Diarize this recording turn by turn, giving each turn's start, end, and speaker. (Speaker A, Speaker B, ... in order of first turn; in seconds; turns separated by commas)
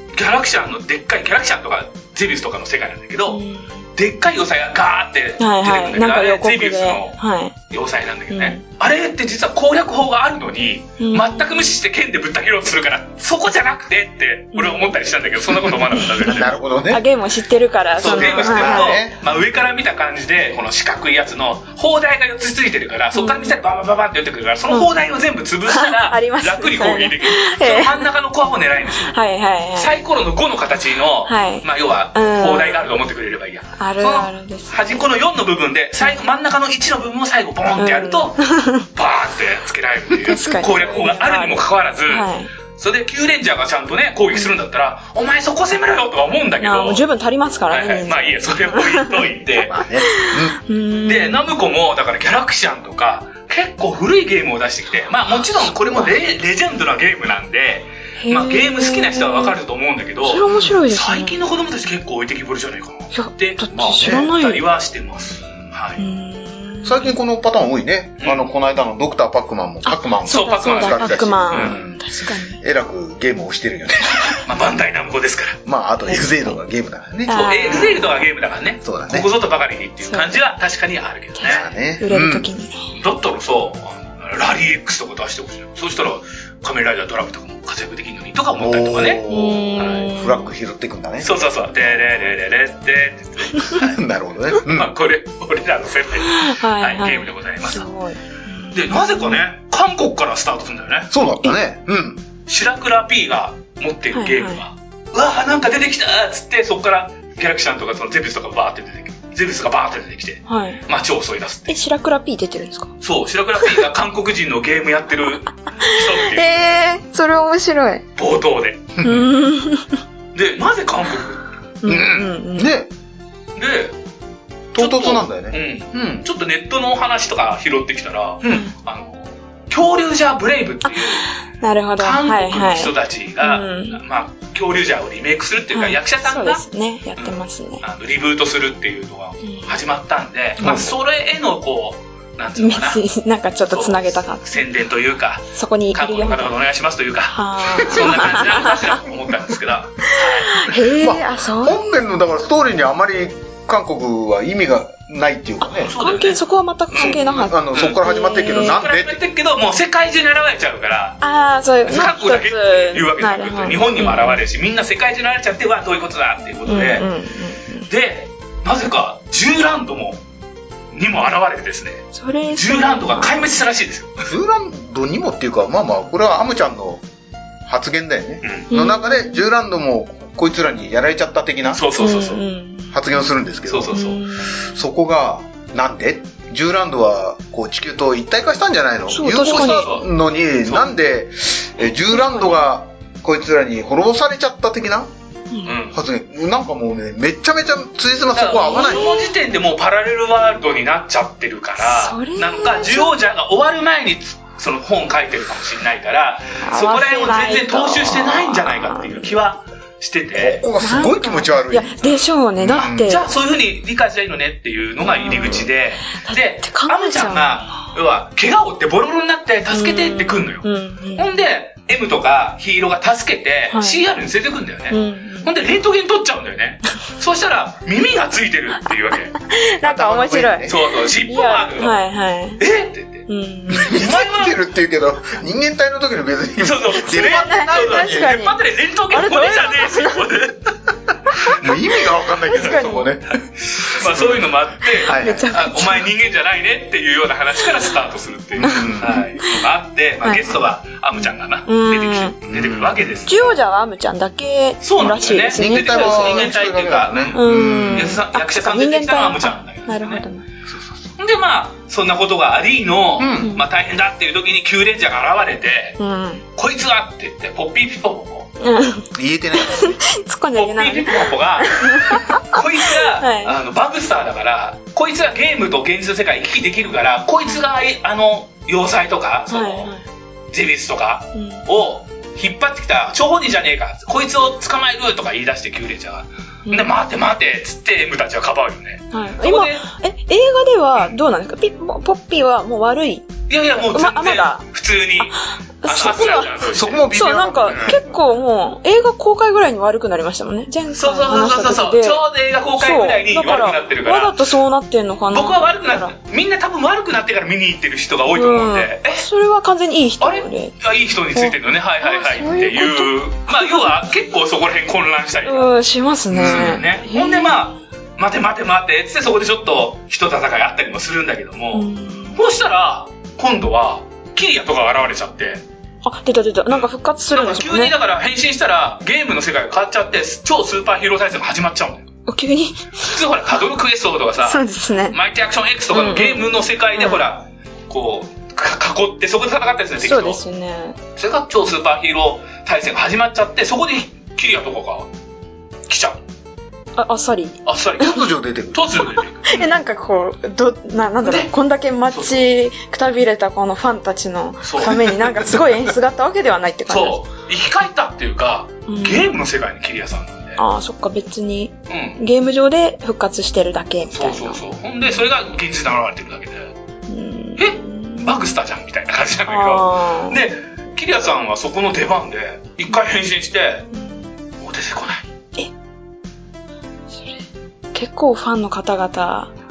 Speaker A: 0.1-3.4, Speaker B: 3.3-3.8, Speaker A: 4.0-7.2, Speaker B: 5.4-7.5, Speaker A: 7.7-16.5, Speaker B: 8.3-8.6, Speaker B: 11.0-11.7, Speaker B: 14.5-14.9, Speaker B: 15.9-19.0, Speaker C: 16.2-17.0, Speaker A: 18.0-29.1, Speaker C: 18.0-19.2, Speaker B: 23.1-23.6, Speaker B: 25.7-28.1, Speaker B: 29.0-29.9, Speaker A: 29.8-47.0, Speaker B: 31.2-32.8, Speaker B: 33.8-35.1, Speaker B: 37.8-38.9, Speaker B: 40.2-42.5, Speaker B: 46.6-49.2, Speaker A: 47.7-49.7, Speaker C: 49.6-50.6, Speaker B: 50.0-51.5, Speaker A: 51.0-66.0, Speaker B: 58.2-59.6, Speaker B: 60.2-61.4, Speaker B: 63.1-64.6, Speaker C: 64.0-64.3, Speaker B: 66.0-67.1, Speaker C: 66.8-72.0, Speaker A: 68.2-68.5, Speaker B: 69.8-72.6, Speaker A: 70.2-71.8, Speaker C: 72.6-74.4, Speaker A: 74.4-75.6, Speaker C: 75.7-78.0, Speaker B: 77.2-78.2, Speaker A: 77.4-81.7, Speaker C: 78.8-79.3, Speaker B: 80.0-80.4, Speaker B: 81.3-82.9, Speaker C: 81.4-82.5, Speaker A: 82.9-89.2, Speaker C: 88.5-91.3, Speaker B: 89.3-90.5, Speaker A: 89.8-90.0, Speaker A: 91.2-97.9, Speaker C: 93.7-94.9, Speaker B: 96.2-99.4, Speaker A: 98.7-101.1, Speaker C: 101.1-102.2, Speaker A: 102.5-111.8, Speaker B: 104.1-104.6, Speaker B: 110.5-110.8, Speaker B: 111.7-112.9, Speaker A: 113.0-116.8, Speaker B: 115.8-118.0, Speaker A: 118.2-118.9, Speaker C: 119.0-119.3, Speaker B: 119.0-120.0, Speaker A: 120.3-121.4, Speaker B: 121.8-122.7, Speaker C: 121.8-122.9, Speaker A: 123.5-123.9, Speaker C: 124.7-126.2, Speaker A: 124.8-131.3, Speaker B: 130.8-134.0, Speaker A: 132.0-136.6, Speaker B: 135.7-137.8, Speaker A: 137.2-143.0, Speaker B: 139.4-139.8, Speaker C: 140.6-140.9, Speaker B: 142.6-144.6, Speaker A: 143.7-150.7, Speaker B: 145.5-146.5, Speaker B: 147.3-149.0, Speaker B: 150.1-151.8, Speaker C: 150.9-155.9, Speaker B: 155.6-158.9, Speaker A: 155.8-156.4, Speaker A: 156.9-161.2, Speaker C: 157.0-159.2, Speaker B: 161.2-164.4, Speaker A: 161.8-167.1, Speaker B: 166.7-167.9, Speaker A: 167.9-170.2, Speaker A: 170.9-174.3, Speaker B: 172.1-173.5, Speaker C: 174.3-177.0, Speaker C: 177.7-181.8, Speaker A: 178.4-178.7, Speaker B: 178.7-179.4, Speaker A: 181.7-182.4, Speaker B: 182.0-182.9, Speaker C: 182.9-184.0, Speaker A: 183.7-184.2, Speaker B: 183.9-184.8, Speaker C: 184.5-195.1, Speaker B: 189.1-189.9, Speaker A: 189.3-190.1, Speaker A: 190.6-191.0, Speaker B: 192.1-192.6, Speaker B: 195.5-195.8, Speaker A: 195.7-196.0, Speaker C: 195.9-199.2, Speaker A: 198.3-210.6, Speaker B: 198.5-199.3, Speaker B: 201.8-203.1, Speaker B: 206.6-209.3, Speaker C: 210.3-212.0, Speaker B: 210.8-213.3, Speaker C: 212.6-213.2, Speaker A: 212.7-229.3, Speaker B: 215.0-217.8, Speaker B: 219.7-221.3, Speaker B: 223.7-224.0, Speaker B: 224.9-225.5, Speaker B: 229.4-232.6, Speaker C: 229.8-230.8, Speaker A: 230.7-232.0, Speaker A: 232.6-233.3, Speaker B: 233.3-234.0, Speaker C: 233.7-238.3, Speaker A: 233.8-234.6, Speaker A: 236.6-240.7, Speaker B: 237.0-238.6, Speaker B: 239.1-240.4, Speaker B: 241.3-241.6, Speaker C: 241.4-244.4, Speaker B: 242.3-243.1, Speaker A: 242.6-253.6, Speaker C: 245.0-245.5, Speaker B: 245.0-246.1, Speaker C: 248.6-249.2, Speaker B: 248.6-249.6, Speaker B: 250.2-250.6, Speaker B: 251.2-252.3, Speaker C: 252.4-253.3, Speaker B: 253.3-256.5, Speaker A: 254.8-260.2, Speaker C: 255.5-258.2, Speaker B: 257.3-260.4, Speaker C: 260.7-261.1, Speaker A: 261.2-266.0, Speaker C: 263.2-263.6, Speaker B: 266.0-266.4, Speaker A: 266.6-268.5, Speaker B: 268.6-269.1, Speaker C: 269.1-270.0, Speaker B: 269.6-273.6, Speaker A: 270.5-279.9, Speaker B: 279.5-280.0, Speaker A: 280.5-289.8, Speaker B: 281.3-281.6, Speaker B: 286.6-286.9, Speaker B: 289.1-293.3, Speaker A: 293.5-295.3, Speaker B: 293.9-294.6, Speaker B: 295.2-296.5, Speaker A: 295.8-297.1, Speaker C: 296.7-298.0, Speaker B: 297.1-302.2, Speaker A: 300.9-304.4, Speaker B: 302.8-306.1, Speaker A: 305.3-309.2, Speaker B: 308.3-310.7, Speaker A: 310.2-315.7, Speaker B: 311.3-313.9, Speaker B: 315.4-317.7, Speaker C: 316.3-316.8, Speaker A: 316.3-325.6, Speaker B: 321.7-322.4, Speaker B: 326.0-327.9, Speaker A: 326.7-332.1, Speaker B: 332.3-333.2, Speaker A: 333.0-340.4, Speaker B: 334.4-335.2, Speaker B: 335.9-337.2, Speaker B: 340.0-341.0, Speaker A: 341.2-345.1, Speaker A: 345.9-346.2, Speaker B: 346.9-348.1, Speaker A: 347.6-349.7, Speaker C: 348.0-349.0, Speaker B: 349.4-357.2, Speaker A: 351.2-351.5, Speaker A: 352.1-352.4, Speaker A: 354.6-355.6, Speaker A: 356.9-360.6, Speaker B: 358.9-359.4, Speaker B: 360.6-365.2, Speaker A: 361.9-362.2, Speaker A: 364.1-366.7, Speaker B: 367.1-368.5, Speaker A: 367.6-373.9, Speaker B: 369.5-370.4, Speaker B: 373.9-374.3, Speaker A: 374.6-375.2, Speaker B: 377.1-379.5